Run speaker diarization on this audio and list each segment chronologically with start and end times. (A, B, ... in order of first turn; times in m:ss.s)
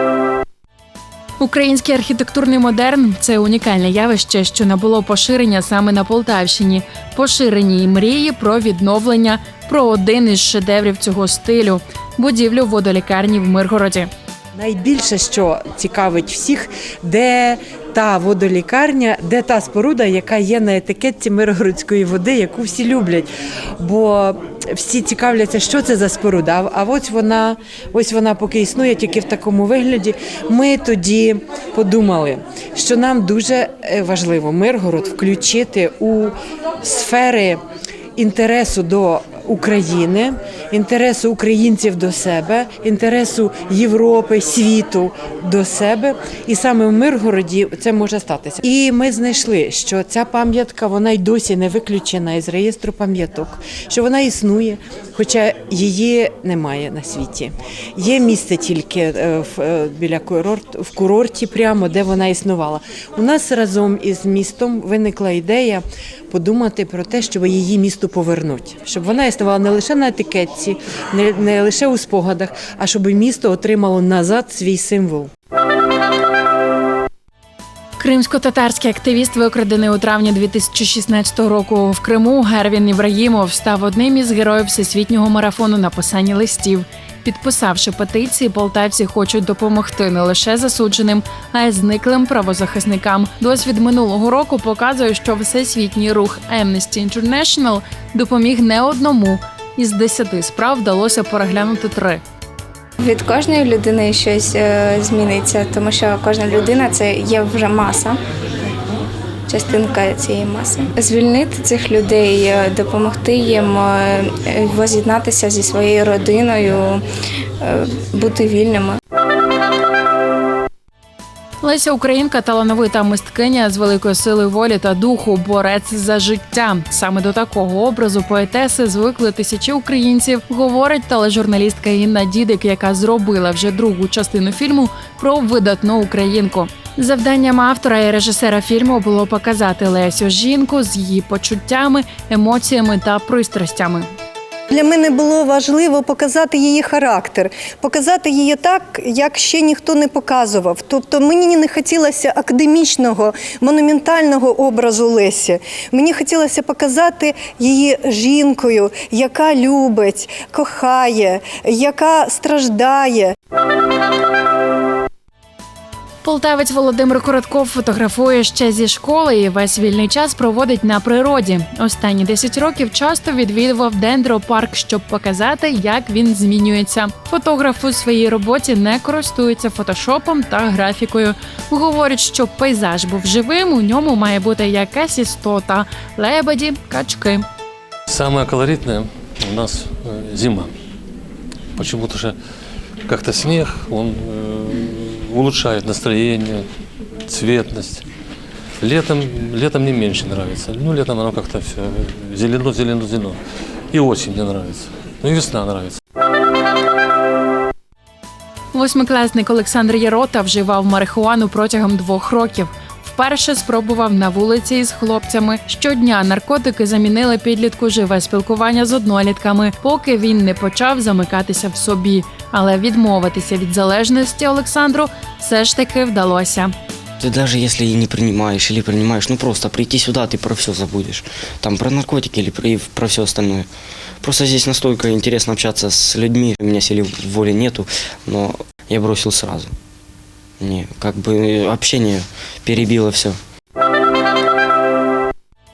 0:01.4-0:14.1 A
0:14.6-0:23.3 B
0:23.8-0:37.6 B
0:38.2-1:15.3 B
1:18.0-1:42.2 A
1:43.0-1:48.2 C
1:49.5-1:57.0 C
1:57.6-1:59.0 C
2:01.6-2:24.1 A
2:24.7-2:43.3 D
2:46.2-3:07.5 A
3:08.1-3:10.7 E
3:11.8-3:12.4 E
3:13.0-3:16.7 E
3:17.3-3:18.1 E
3:18.8-3:26.0 E
3:28.7-3:46.7 A
3:47.2-3:53.7 F
3:54.2-3:59.7 F
4:00.6-4:03.4 F